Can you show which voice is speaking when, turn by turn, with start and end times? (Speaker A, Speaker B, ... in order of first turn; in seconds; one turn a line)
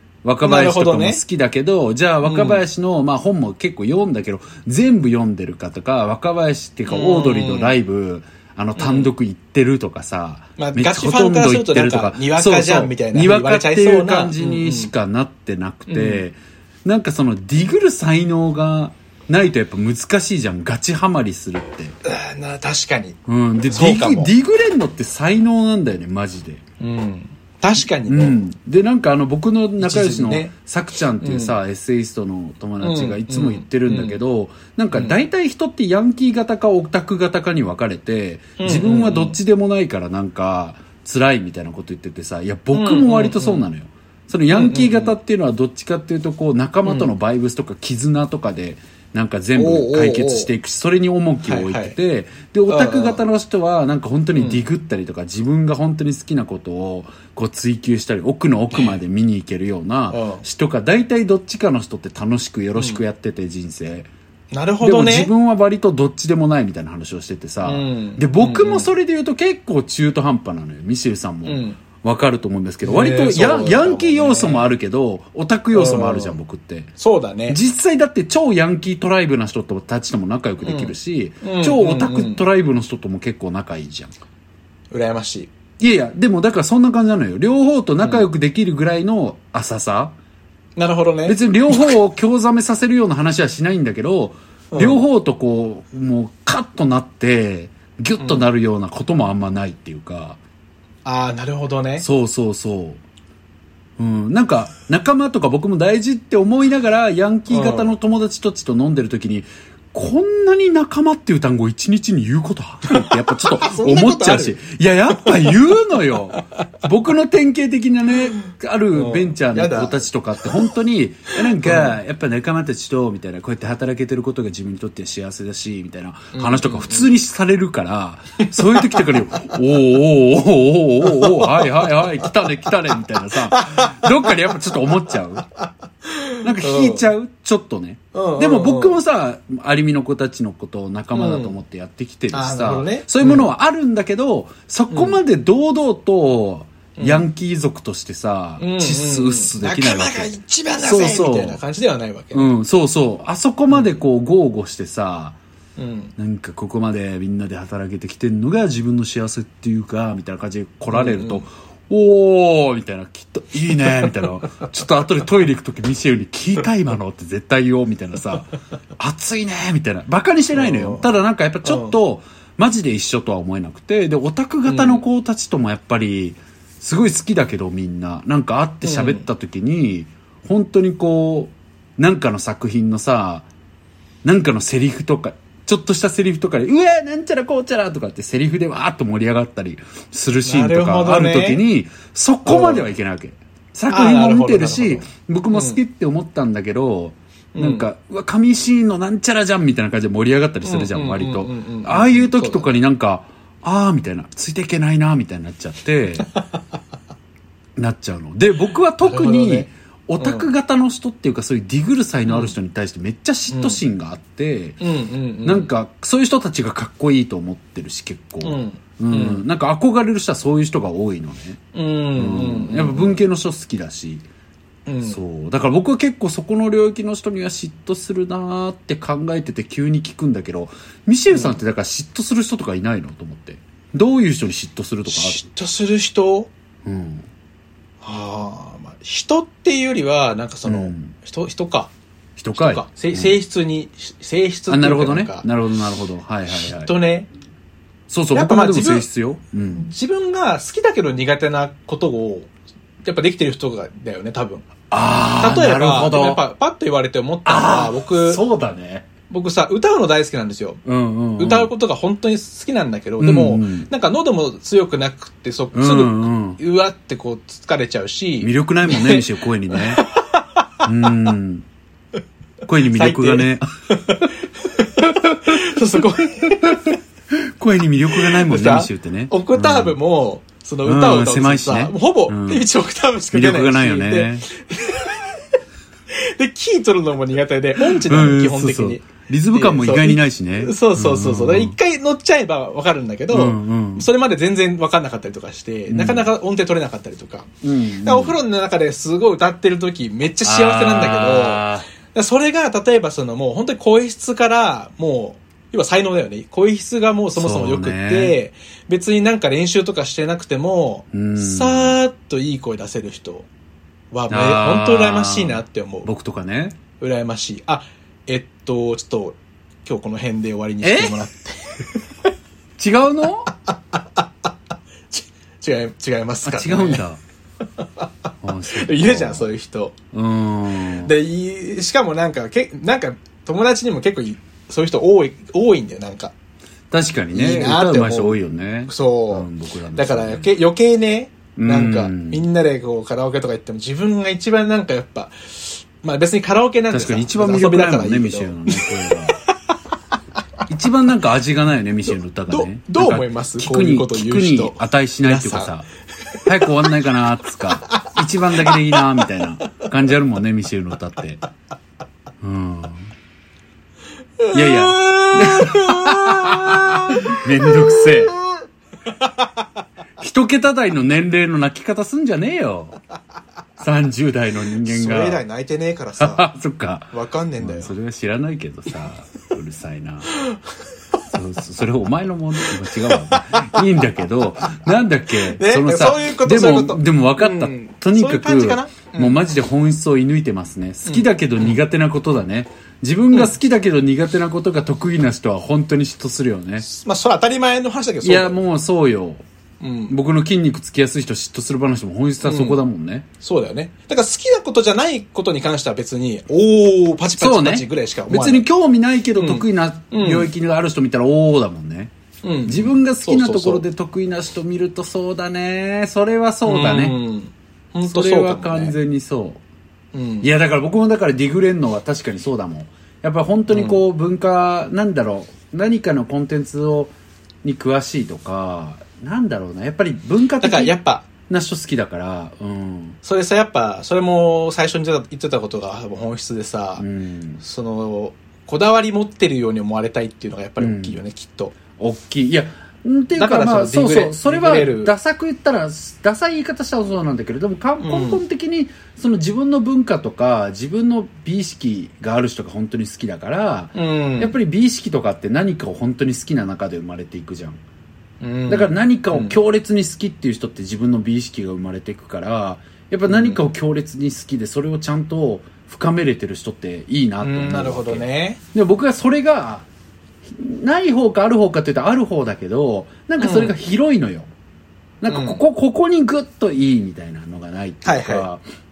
Speaker A: 0.2-21.9
Speaker B: 0.4-1.2
Speaker B: 2.2-2.6
Speaker B: 6.9-7.8
Speaker B: 8.8-9.1
Speaker B: 10.6-14.9
Speaker B: 15.9-16.2
Speaker B: 22.0-23.2
Speaker A: 23.3-26.6
Speaker B: 23.7-24.3
Speaker B: 26.8-28.4
Speaker A: 28.1-64.1
Speaker B: 29.8-30.5
Speaker B: 31.2-31.6
Speaker B: 32.8-34.2
Speaker B: 38.6-39.4
Speaker B: 42.7-43.6
Speaker B: 44.5-45.1
Speaker B: 46.8-47.1
Speaker B: 49.5-50.5
Speaker B: 51.4-52.0
Speaker B: 52.7-53.2
Speaker B: 54.4-54.7
Speaker B: 60.1-60.4
Speaker B: 62.8-63.0
Speaker B: 64.5-65.3
Speaker A: 64.8-76.9
Speaker B: 67.6-68.9
Speaker B: 71.4-71.8
Speaker B: 72.8-74.7
Speaker B: 75.7-76.4
Speaker B: 77.0-77.6
Speaker A: 77.5-84.1
Speaker B: 80.6-82.4
Speaker B: 84.9-85.5
Speaker A: 85.8-90.2
Speaker B: 88.0-88.2
Speaker B: 90.8-92.0
Speaker A: 91.2-100.4
Speaker B: 94.7-95.0
Speaker B: 98.2-98.5
Speaker B: 101.0-102.0
Speaker A: 102.0-103.0
Speaker A: 104.0-135.5
Speaker B: 107.5-107.9
Speaker B: 112.9-114.6
Speaker B: 115.2-115.5
Speaker B: 118.4-120.5
Speaker B: 121.6-122.0
Speaker B: 126.3-127.1
Speaker B: 128.4-129.2
Speaker B: 131.0-132.3
Speaker B: 133.5-134.5
Speaker B: 136.1-137.0
Speaker A: 136.4-151.6
Speaker B: 138.1-139.0
Speaker B: 141.1-141.6
Speaker B: 142.3-143.5
Speaker B: 144.9-145.2
Speaker B: 147.0-147.2
Speaker B: 148.6-152.5
Speaker A: 152.3-155.4
Speaker B: 153.7-153.9
Speaker B: 155.8-156.1
Speaker A: 156.2-183.4
Speaker B: 160.9-161.4
Speaker B: 163.8-164.7
Speaker B: 170.5-171.1
Speaker B: 171.6-171.9
Speaker B: 174.7-175.0
Speaker B: 178.8-179.2
Speaker A: 184.2-206.3
Speaker B: 190.4-191.6
Speaker B: 192.4-192.9
Speaker B: 193.9-195.8
Speaker B: 197.5-197.8
Speaker B: 200.6-202.7
Speaker A: 207.8-214.8
Speaker B: 209.0-209.7
Speaker B: 210.2-210.5
Speaker B: 212.3-212.5
Speaker B: 213.5-213.8
Speaker B: 214.8-215.7
Speaker A: 215.4-221.6
Speaker B: 218.4-219.4
Speaker B: 221.7-223.2
Speaker A: 222.2-224.2
Speaker B: 224.8-225.2
Speaker A: 225.0-235.4
Speaker B: 231.3-231.6
Speaker B: 235.1-236.5
Speaker A: 236.8-237.3
Speaker B: 238.0-241.9
Speaker A: 240.7-241.1
Speaker A: 242.4-243.3
Speaker B: 242.5-245.5
Speaker A: 244.7-246.9
Speaker B: 246.5-247.3
Speaker A: 248.1-249.9
Speaker B: 248.3-249.1
Speaker B: 249.7-252.5
Speaker B: 253.0-254.7
Speaker A: 254.9-256.4
Speaker B: 255.4-258.4
Speaker A: 257.4-259.1
Speaker B: 259.3-260.8
Speaker A: 260.8-261.7
Speaker B: 261.4-270.6
Speaker A: 263.2-263.9
Speaker A: 265.7-266.6
Speaker A: 268.4-270.1
Speaker A: 270.8-271.7
Speaker A: 272.6-273.6
Speaker B: 272.8-276.9
Speaker A: 275.0-275.8
Speaker A: 276.5-280.0
Speaker B: 278.1-285.4
Speaker A: 280.8-282.6
Speaker A: 283.3-284.5
Speaker B: 286.1-297.5
Speaker A: 287.8-291.8
Speaker A: 293.3-294.1
Speaker A: 295.9-296.3
Speaker A: 297.6-298.4
Speaker B: 298.0-313.5
Speaker A: 300.4-301.9
Speaker A: 307.4-308.4
Speaker A: 311.1-312.0
Speaker B: 314.1-316.1
Speaker A: 314.3-316.8
Speaker B: 317.0-321.7
Speaker A: 320.8-321.2
Speaker A: 322.8-323.5
Speaker B: 323.7-324.2
Speaker B: 325.1-327.0
Speaker A: 326.4-327.2
Speaker B: 327.8-329.9
Speaker A: 328.4-329.5
Speaker A: 330.1-331.1
Speaker B: 331.0-336.3
Speaker A: 336.9-340.5
Speaker B: 337.3-349.1
Speaker A: 341.6-342.4
Speaker A: 346.9-349.4
Speaker A: 350.7-355.9
Speaker B: 352.5-355.7
Speaker B: 356.4-356.9
Speaker A: 356.4-361.4
Speaker B: 357.9-359.2
Speaker A: 362.4-363.1
Speaker B: 364.4-368.4
Speaker A: 364.5-368.4
Speaker A: 370.2-373.0
Speaker A: 373.8-375.4
Speaker B: 374.8-376.4
Speaker A: 376.2-380.4
Speaker B: 377.1-377.9
Speaker B: 380.3-380.6
Speaker A: 381.3-396.9
Speaker B: 382.8-383.8
Speaker B: 385.4-389.4
Speaker B: 391.1-391.8
Speaker B: 396.8-398.6
Speaker A: 398.2-399.4
Speaker B: 399.8-400.1
Speaker A: 400.1-403.3
Speaker B: 402.4-402.8
Speaker B: 403.4-408.6
Speaker A: 407.4-412.1
Speaker B: 409.4-410.5
Speaker B: 412.4-413.8
Speaker A: 412.6-417.2
Speaker B: 416.6-418.9
Speaker A: 418.0-419.6
Speaker B: 420.1-420.5
Speaker A: 420.4-427.1
Speaker B: 423.7-424.0
Speaker A: 427.6-433.2
Speaker B: 430.6-431.3
Speaker B: 433.2-437.1
Speaker A: 437.0-437.6
Speaker B: 437.6-441.7
Speaker A: 440.8-441.2
Speaker A: 442.0-457.8
Speaker B: 443.4-445.1
Speaker B: 448.0-448.4
Speaker B: 453.9-454.5
Speaker B: 458.4-459.6
Speaker A: 458.7-469.9
Speaker B: 463.3-463.6
Speaker B: 467.4-468.6
Speaker A: 470.4-474.5
Speaker B: 473.4-473.7
Speaker A: 475.2-478.6
Speaker B: 475.2-475.6
Speaker B: 478.0-478.5